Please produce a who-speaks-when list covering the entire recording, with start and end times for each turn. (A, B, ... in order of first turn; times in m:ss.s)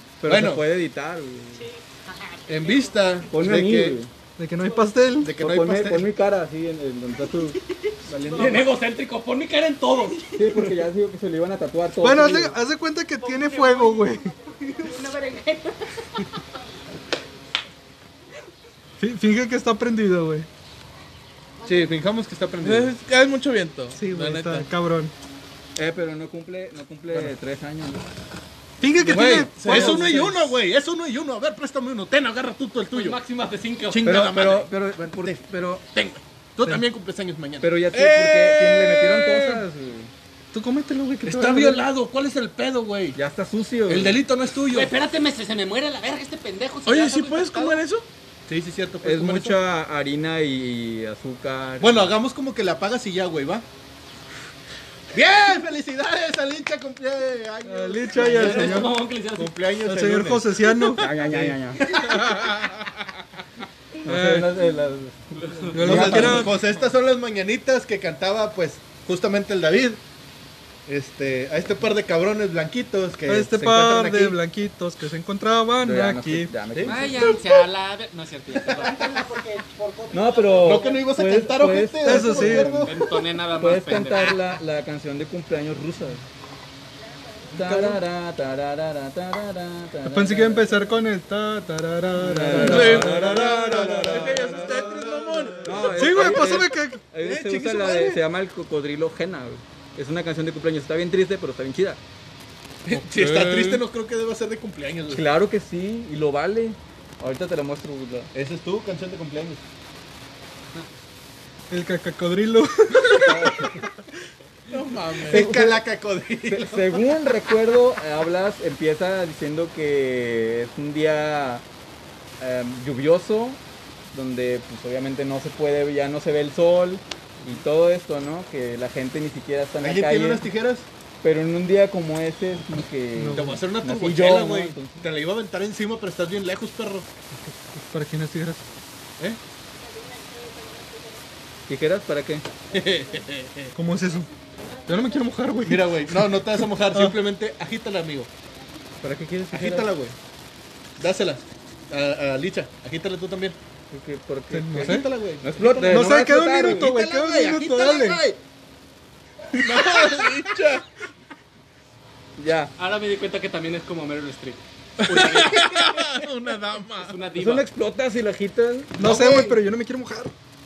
0:00.2-0:01.7 A
0:00.2-0:00.6 B
0:01.5-0:03.1 C
0:02.5-0:04.0 B
0:03.3-0:04.1 A
0:04.4-0:05.3 D
0:05.2-0:06.1 B
0:05.4-0:07.6 A
0:07.9-0:08.6 C
0:08.0-0:08.7 B
0:08.3-0:10.8 E
0:10.3-0:12.6 A
0:12.0-0:14.3 D
0:13.2-0:16.5 C
0:19.0-0:20.5 D
0:21.6-0:22.0 C
0:21.6-0:22.9 B
0:22.6-0:24.7 F
0:23.9-0:25.1 D
0:25.8-0:28.0 A
0:28.8-0:30.3 D
0:29.0-0:33.2 B
0:29.1-0:30.3 F
0:32.9-0:34.3 E
0:33.9-0:35.4 B
0:34.0-0:35.8 A
0:36.6-0:37.7 B
0:37.6-0:40.1 A
0:37.9-0:39.6 F
0:40.5-0:41.9 D
0:41.2-0:43.2 B
0:43.1-0:44.2 A
0:43.9-0:44.9 B
0:44.7-0:47.8 E
0:46.8-0:48.0 F
0:48.5-0:49.6 B
0:49.0-0:52.1 A
0:51.8-0:53.6 B
0:55.1-1:02.4 B
0:57.6-0:58.9 D
0:58.2-0:59.5 E
0:59.8-1:01.1 D
1:00.9-1:02.1 A
1:02.1-1:02.8 F
1:04.0-1:06.6 A
1:04.0-1:04.5 D
1:05.7-1:06.5 D
1:05.8-1:10.0 B
1:10.9-1:14.4 B
1:13.3-1:16.5 D
1:15.8-1:17.4 A
1:16.7-1:17.2 B
1:16.8-1:19.1 E
1:18.5-1:19.1 B
1:18.7-1:21.1 C
1:20.1-1:26.2 A
1:20.6-1:22.9 B
1:22.0-1:22.9 D
1:22.8-1:24.4 E
1:27.5-1:28.0 B
1:27.5-1:30.8 A
1:30.0-1:34.0 D
1:32.2-1:34.8 A
1:32.5-1:35.6 B
1:32.6-1:33.3 F
1:34.0-1:35.9 F
1:35.6-1:42.0 A
1:35.9-1:37.0 D
1:36.1-1:36.5 B
1:37.2-1:38.2 B
1:42.8-1:45.2 B
1:42.9-1:43.8 F
1:45.1-1:48.3 A
1:48.3-1:49.6 B
1:51.7-1:53.7 D
1:53.2-1:53.8 A
1:54.7-1:55.5 F
1:55.2-1:57.0 B
1:55.3-1:55.8 A
1:56.5-2:01.6 A
2:02.4-2:03.6 A
2:04.1-2:10.5 A
2:09.8-2:10.9 B
2:11.2-2:15.0 A
2:13.2-2:13.6 D
2:13.3-2:17.1 B
2:17.7-2:18.6 D
2:19.9-2:21.2 C
2:21.7-2:22.5 A
2:22.7-2:23.7 B
2:23.7-2:24.3 D
2:24.5-2:25.3 C
2:24.9-2:27.2 D
2:25.6-2:28.3 B
2:29.0-2:29.9 A
2:29.5-2:30.2 B
2:31.0-2:33.6 B
2:33.9-2:36.9 A
2:34.5-2:35.1 D
2:34.7-2:38.4 B
2:35.8-2:38.2 D
2:39.6-2:40.8 F
2:39.6-2:40.8 B
2:42.4-2:42.7 A
2:42.8-2:46.0 E
2:45.0-2:47.2 F
2:46.9-2:47.7 E
2:47.4-2:49.2 A
2:49.0-2:50.3 D
2:49.1-2:49.6 B